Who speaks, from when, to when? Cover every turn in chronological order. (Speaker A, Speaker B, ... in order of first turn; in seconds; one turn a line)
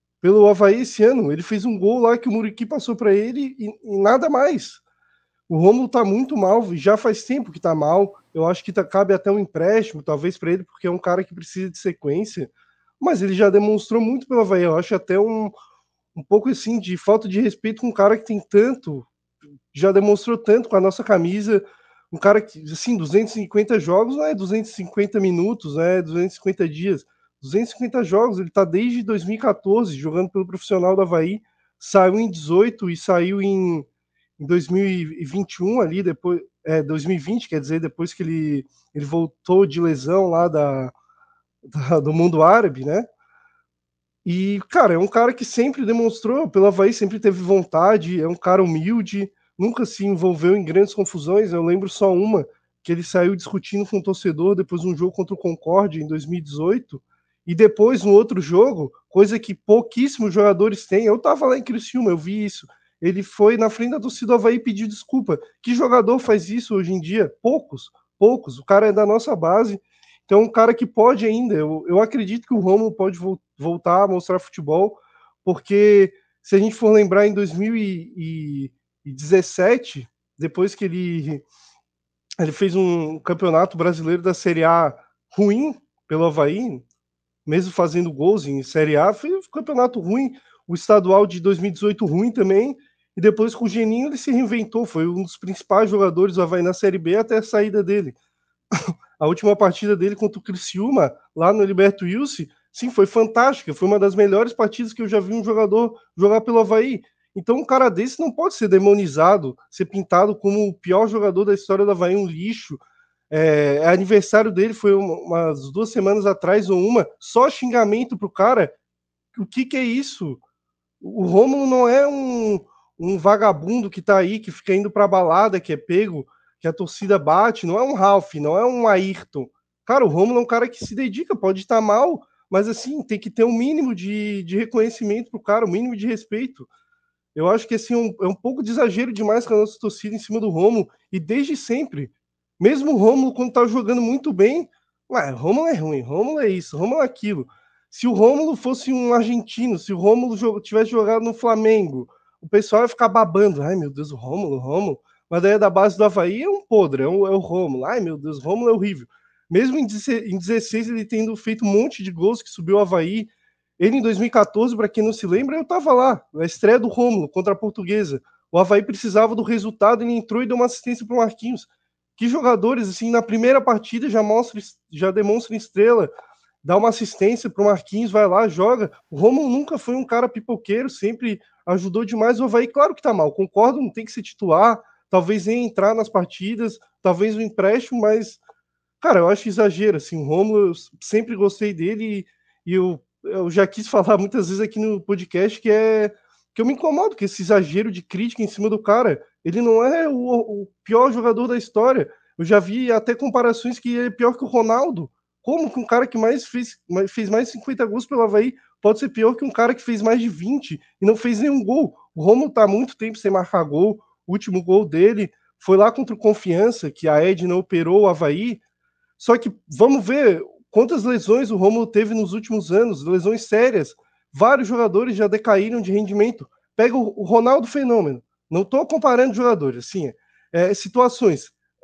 Speaker A: 0.2-4.8
Speaker A: 5.5-15.5
Speaker A: 16.1-19.1
Speaker A: 19.7-33.9
Speaker A: 34.4-40.9
Speaker A: 41.7-43.1
Speaker A: 44.2-81.4
Speaker A: 82.4-86.8
Speaker A: 87.5-98.1
Speaker A: 99.2-112.8
Speaker A: 113.3-118.7
Speaker A: 119.3-120.4
Speaker A: 121.0-136.7
Speaker A: 137.3-176.1
Speaker A: 176.6-188.4
Speaker A: 189.0-218.6
Speaker A: 219.2-231.5